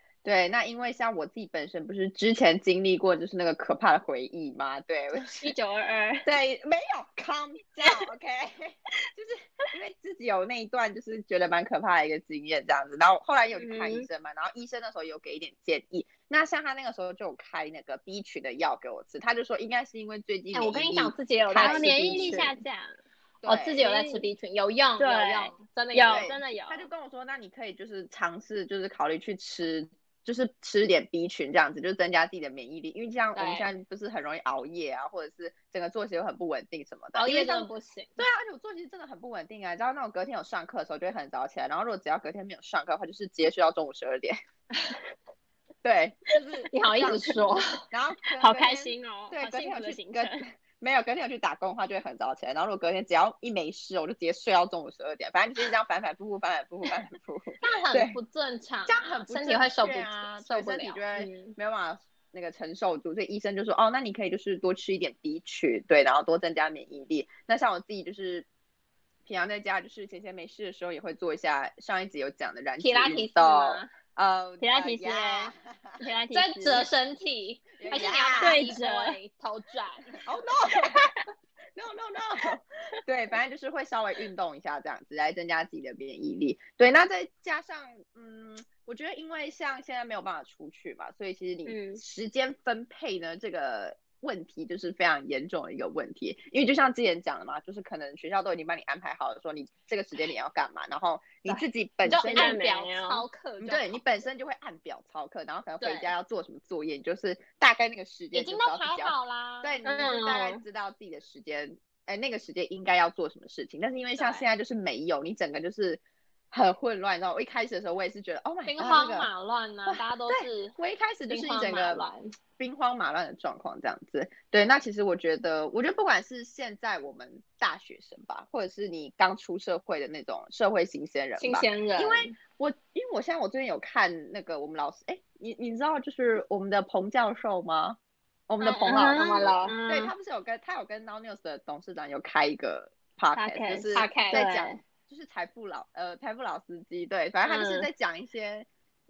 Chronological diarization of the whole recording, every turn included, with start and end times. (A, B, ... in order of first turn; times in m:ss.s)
0:00.2-0:05.5 A
0:05.4-0:06.3 B
0:06.2-0:22.5 A
0:13.6-0:14.1 B
0:20.5-0:22.6 C
0:21.6-0:23.0 B
0:23.4-0:23.8 A
0:23.4-0:26.3 C
0:23.8-0:24.3 B
0:25.0-0:26.9 B
0:26.1-0:44.4 A
0:33.4-0:33.7 C
0:37.2-0:38.3 C
0:45.8-0:58.2 A
0:46.7-0:47.8 C
0:48.4-0:50.4 B
0:57.6-1:01.6 C
0:58.9-1:08.5 A
1:09.3-1:16.0 A
1:12.8-1:13.9 C
1:14.6-1:16.9 B
1:16.3-1:20.2 C
1:17.8-1:18.7 A
1:18.4-1:19.2 B
1:20.2-1:21.1 A
1:21.8-1:42.6 A
1:31.7-1:32.0 B
1:41.5-1:44.0 C
1:42.3-1:43.2 B
1:43.6-1:59.3 A
1:45.8-1:46.1 C
1:48.3-1:49.9 C
1:49.8-1:50.6 B
1:54.2-1:54.5 C
1:58.7-2:00.8 C
1:59.9-2:02.0 A
2:01.3-2:02.3 C
2:02.6-2:18.0 A
2:11.4-2:12.4 C
2:18.5-2:28.7 A
2:18.6-2:19.8 C
2:19.6-2:20.1 B
2:23.4-2:24.8 B
2:23.9-2:24.5 C
2:27.4-2:27.9 B